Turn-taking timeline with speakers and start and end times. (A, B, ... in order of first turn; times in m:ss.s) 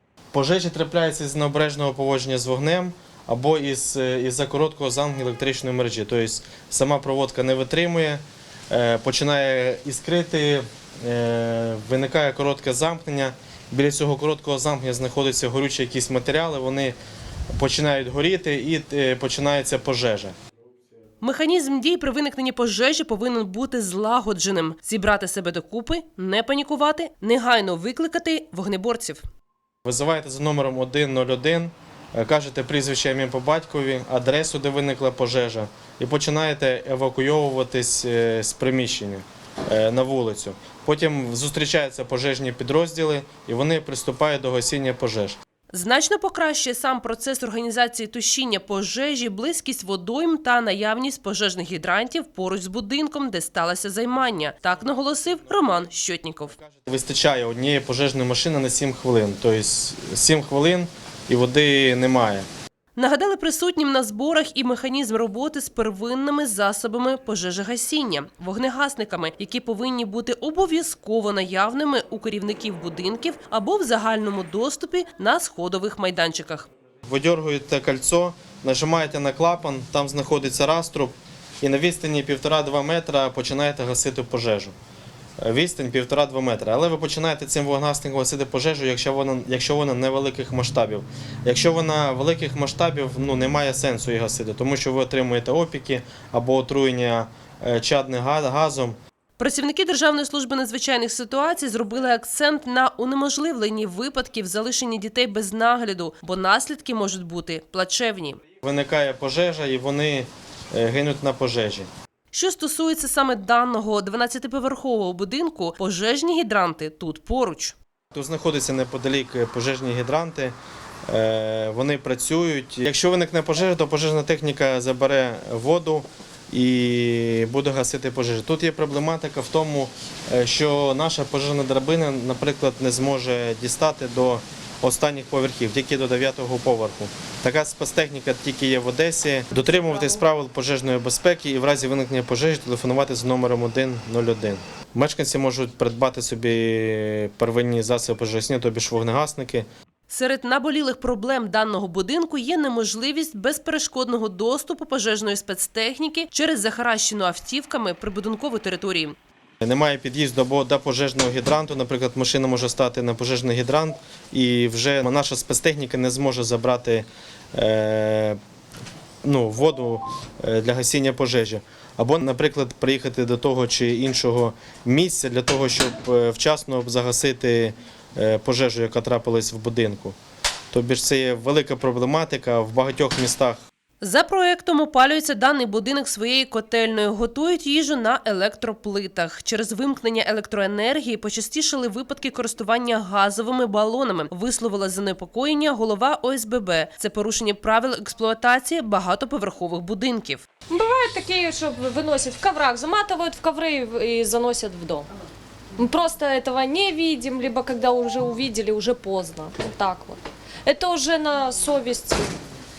0:00.3-0:17.0 A
0:17.5-0:20.3 A
0:21.2-0:29.2 B
0:29.8-0:45.4 A
0:45.7-0:56.6 B
0:56.7-1:02.5 A
1:02.9-1:16.7 B
1:17.0-1:24.7 A
1:25.4-1:39.0 A
1:39.4-1:48.4 B
1:48.6-1:51.9 A
1:52.3-1:57.8 B
1:58.1-2:00.5 A
2:01.1-2:29.6 A
2:30.1-2:39.1 B
2:39.6-2:48.4 A
2:49.2-3:00.2 A
3:00.7-3:03.6 A
3:04.0-3:20.4 B
3:20.7-3:25.1 C
3:25.8-3:32.3 C